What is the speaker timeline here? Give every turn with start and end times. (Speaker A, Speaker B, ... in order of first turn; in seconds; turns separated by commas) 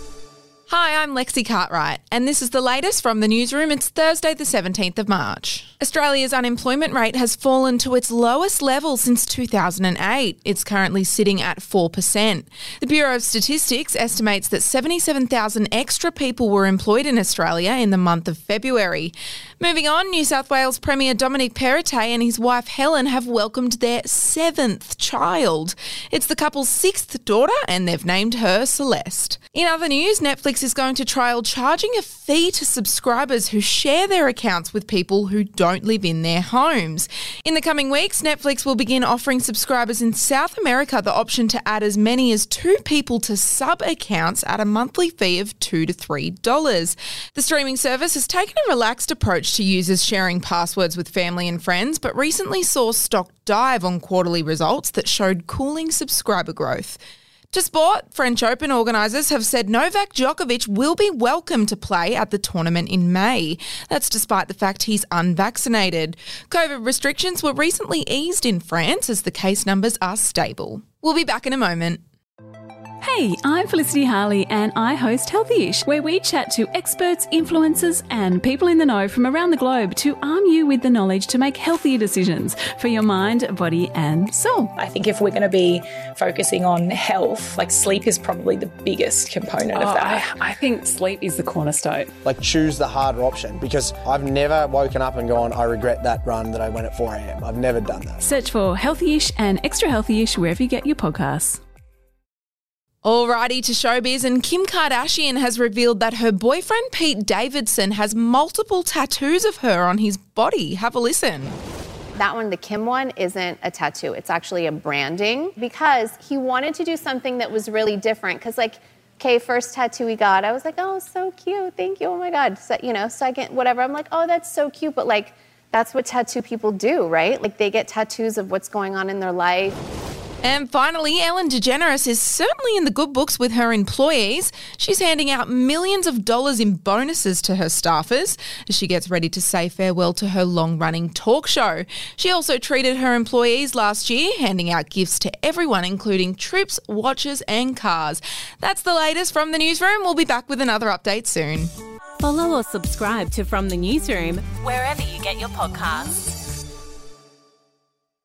Speaker A: 0.7-57.0, Speaker A: 57.5-72.0, Speaker B: 73.0-84.8, Speaker C: 84.8-90.4, Speaker B: 89.7-92.1, Speaker D: 92.2-98.2, Speaker B: 98.2-101.6, Speaker A: 103.0-111.6, Speaker E: 112.2-129.8, Speaker A: 130.4-151.7, Speaker F: 152.2-156.4